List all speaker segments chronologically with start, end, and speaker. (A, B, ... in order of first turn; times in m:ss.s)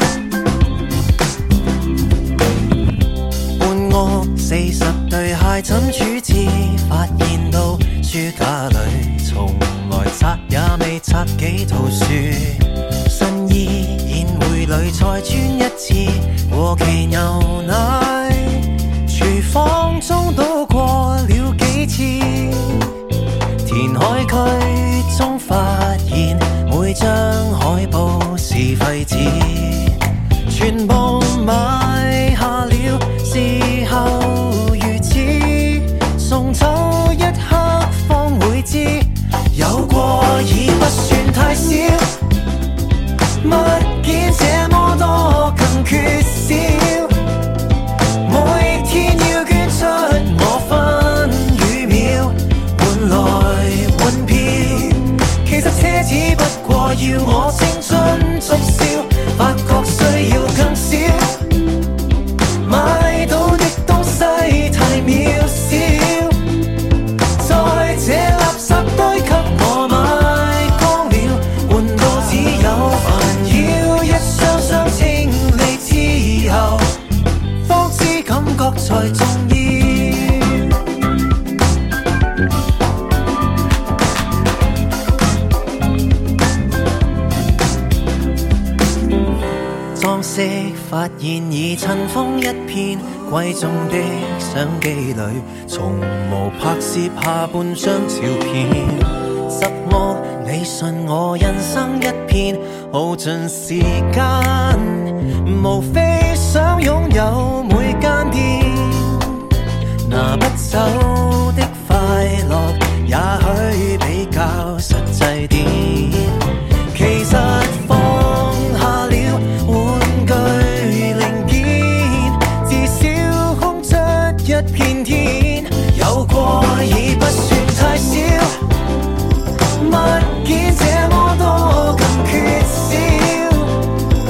0:03.6-0:22.9 A
0:23.6-0:42.2 A
0:43.4-0:47.2 A
0:48.2-1:01.4 A
1:02.6-1:06.4 A
1:07.4-1:17.0 A
1:17.6-1:20.7 A
1:29.9-1:49.4 A
1:50.0-2:08.6 A
2:09.8-2:13.8 A